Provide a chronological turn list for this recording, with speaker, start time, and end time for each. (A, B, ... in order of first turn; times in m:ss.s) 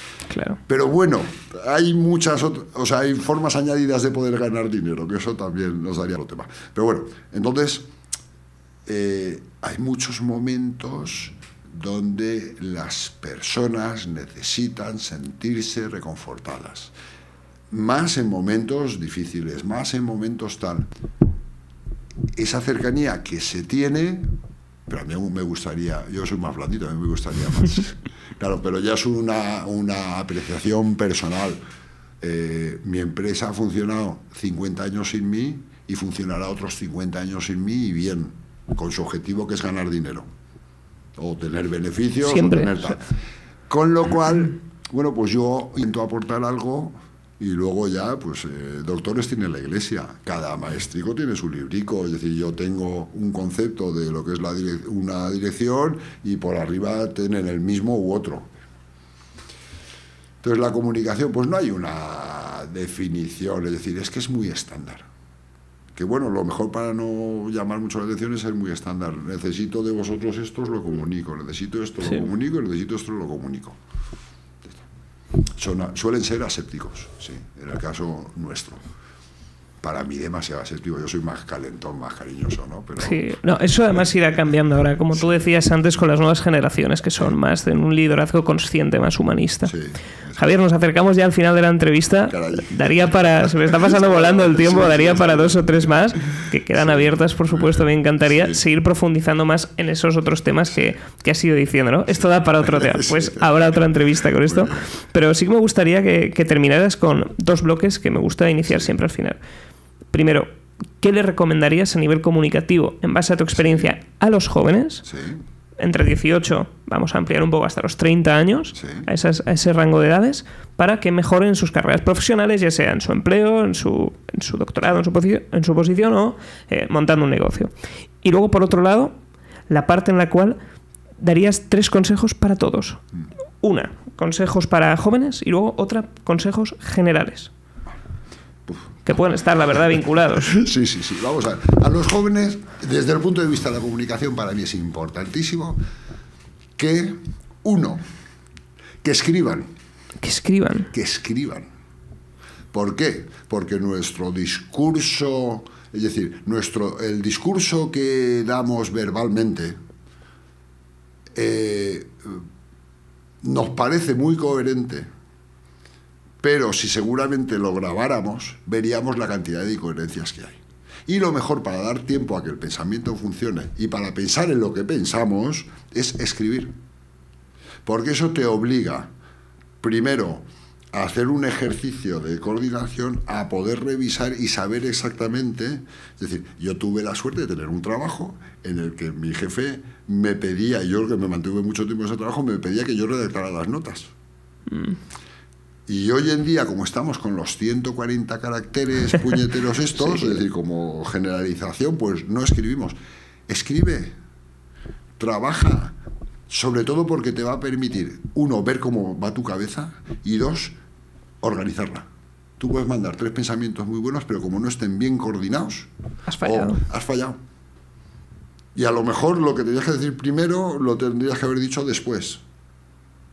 0:00.3-0:00.6 A
0:00.7-0:07.9 B
0:08.9-0:16.9 B
0:17.7-0:20.9 B
0:22.4-0:24.3 B
0:24.9-0:31.6 B
0:32.2-0:40.3 B
0:41.2-0:43.1 B
0:42.2-0:42.9 A
0:43.7-0:58.5 B
1:00.4-1:05.1 B
1:06.0-1:13.8 B
1:15.5-1:18.8 B
1:19.8-1:23.3 B
1:23.0-1:29.7 A
1:29.6-1:30.4 B
1:30.4-1:49.4 A
1:32.3-1:38.6 B
1:42.6-1:43.7 B
1:44.4-1:44.9 B
1:50.1-1:50.5 A
1:51.0-1:55.1 A
1:55.1-1:55.4 B
1:55.8-2:09.1 A
1:58.8-1:59.1 B
2:09.7-2:10.6 A
2:11.2-2:13.0 A
2:13.6-2:17.5 A
2:18.7-2:19.0 B
2:19.0-2:20.5 A
2:20.4-2:25.8 B
2:26.8-2:28.0 B
2:29.0-2:29.7 B
2:30.2-2:30.9 A
2:30.9-2:31.7 B
2:32.7-2:39.8 B
2:41.4-2:42.4 B
2:43.4-2:45.1 B
2:46.4-2:56.8 B
2:57.8-2:59.1 B
2:59.8-3:14.1 B
3:14.7-3:15.0 A
3:15.9-3:23.0 B
3:23.5-3:24.1 B
3:25.2-3:26.0 B
3:26.5-3:30.8 B
3:31.4-3:32.1 B
3:32.6-3:35.9 B
3:36.3-3:36.8 A
3:36.4-3:37.4 B
3:38.8-3:42.4 B